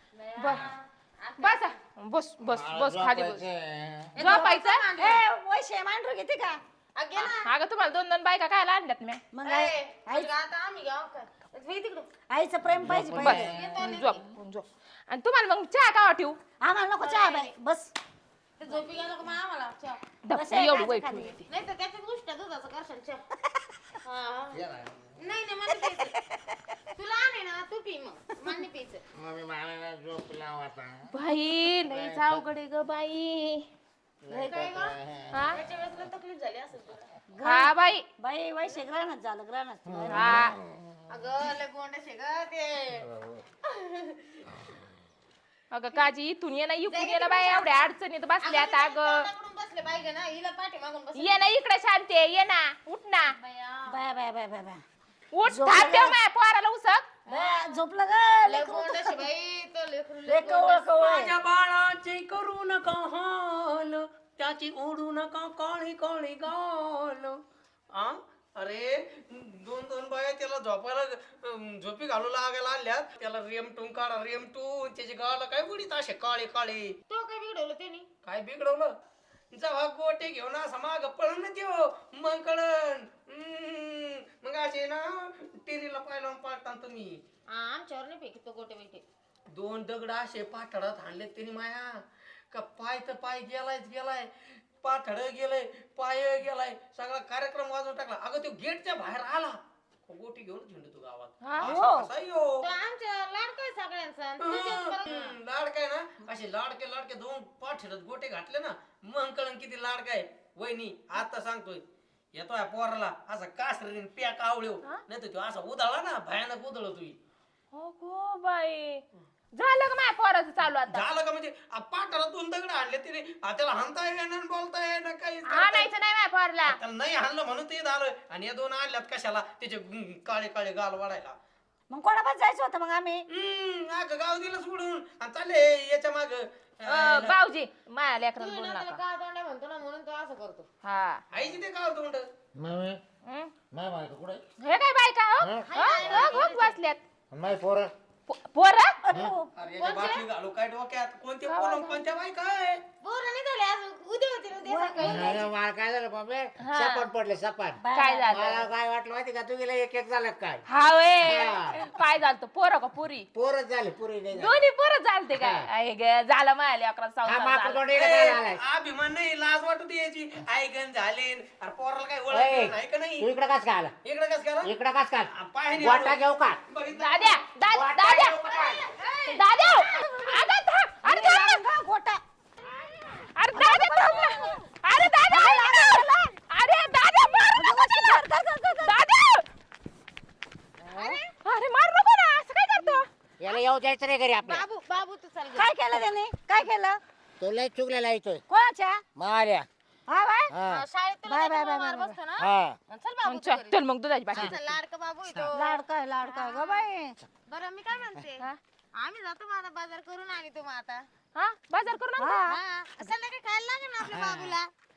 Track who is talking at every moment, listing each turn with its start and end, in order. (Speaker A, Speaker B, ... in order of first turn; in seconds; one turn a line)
Speaker A: 0.2-1.7
Speaker B: 0.4-0.7
Speaker B: 1.4-3.4
Speaker C: 2.5-4.2
Speaker B: 4.2-4.8
Speaker A: 4.2-5.2
Speaker D: 4.2-6.6
Speaker A: 7.0-7.5
Speaker B: 7.2-9.2
Speaker D: 9.3-10.3
Speaker A: 9.4-12.1
Speaker D: 12.3-13.6
Speaker C: 12.7-13.9
Speaker B: 13.1-16.4
Speaker A: 13.4-14.2
Speaker D: 16.6-17.9
Speaker A: 16.9-17.6
Speaker A: 18.6-20.1
Speaker B: 20.2-21.4
Speaker D: 20.3-21.4
Speaker A: 21.4-23.3
Speaker A: 24.0-24.6
Speaker C: 24.5-24.9
Speaker A: 25.2-26.2
Speaker A: 27.0-29.0
Speaker C: 29.2-31.1
Speaker B: 31.1-33.6
Speaker C: 31.9-32.4
Speaker C: 34.2-35.4
Speaker A: 34.3-35.0
Speaker B: 35.3-35.6
Speaker A: 35.5-37.1
Speaker D: 37.3-40.5
Speaker B: 37.4-38.1
Speaker C: 39.9-40.5
Speaker B: 40.1-40.6
Speaker A: 41.1-43.1
Speaker A: 43.6-44.4
Speaker B: 45.7-49.3
Speaker A: 46.9-51.5
Speaker B: 51.1-53.4
Speaker A: 53.3-54.0
Speaker D: 53.9-54.8
Speaker B: 55.3-57.1
Speaker D: 55.5-56.1
Speaker A: 57.3-57.8
Speaker D: 57.3-59.3
Speaker A: 58.4-61.2
Speaker D: 60.2-61.4
Speaker E: 61.0-67.4
Speaker E: 67.9-77.0
Speaker A: 77.1-78.1
Speaker E: 78.2-78.9
Speaker E: 79.5-87.2
Speaker A: 87.5-89.0
Speaker E: 89.5-91.9
Speaker E: 92.5-102.7
Speaker B: 101.4-101.7
Speaker D: 101.6-102.1
Speaker A: 102.6-105.4
Speaker E: 104.4-111.8
Speaker E: 112.4-117.2
Speaker B: 117.7-119.0
Speaker B: 119.5-121.1
Speaker E: 120.9-125.9
Speaker B: 125.5-126.8
Speaker E: 126.6-131.4
Speaker D: 131.9-133.2
Speaker E: 133.3-137.4
Speaker B: 136.9-139.0
Speaker A: 138.4-140.7
Speaker B: 140.8-141.2
Speaker E: 141.3-142.3
Speaker C: 142.5-143.0
Speaker B: 143.2-143.5
Speaker C: 143.7-144.4
Speaker B: 144.6-147.0
Speaker C: 145.4-146.3
Speaker A: 145.7-146.8
Speaker C: 147.3-147.9
Speaker B: 148.3-149.0
Speaker D: 149.0-149.5
Speaker E: 149.5-152.8
Speaker A: 149.7-150.3
Speaker B: 151.5-152.0
Speaker A: 153.0-155.5
Speaker D: 154.6-155.4
Speaker C: 155.0-160.6
Speaker B: 156.6-157.1
Speaker D: 157.8-158.5
Speaker B: 157.9-158.6
Speaker B: 160.7-163.3
Speaker C: 161.2-161.8
Speaker C: 163.3-164.6
Speaker B: 164.3-167.9
Speaker C: 165.3-165.7
Speaker C: 167.2-168.6
Speaker E: 167.9-173.3
Speaker C: 172.3-173.9
Speaker E: 174.0-174.7
Speaker C: 174.6-176.6
Speaker E: 175.3-177.4
Speaker B: 176.9-178.5
Speaker C: 177.7-178.8
Speaker A: 178.5-178.8
Speaker E: 179.0-179.3
Speaker B: 179.3-181.6
Speaker D: 179.8-180.5
Speaker D: 181.0-182.2
Speaker D: 182.8-184.6
Speaker B: 183.3-188.2
Speaker D: 185.3-186.3
Speaker D: 187.5-189.0
Speaker B: 188.8-189.5
Speaker D: 190.8-191.2
Speaker B: 191.4-193.1
Speaker C: 193.4-194.6
Speaker A: 194.4-195.9
Speaker D: 195.5-197.0
Speaker C: 197.4-198.4
Speaker D: 198.5-199.0
Speaker C: 199.2-199.7
Speaker D: 200.1-200.6
Speaker C: 200.5-200.8
Speaker A: 200.6-203.8
Speaker D: 201.2-202.2
Speaker C: 202.4-202.8
Speaker B: 203.2-204.6
Speaker A: 204.3-206.9
Speaker D: 205.5-207.2
Speaker A: 207.5-211.1
Speaker B: 211.3-212.4
Speaker D: 212.2-212.6
Speaker A: 212.5-214.7
Speaker C: 214.0-214.6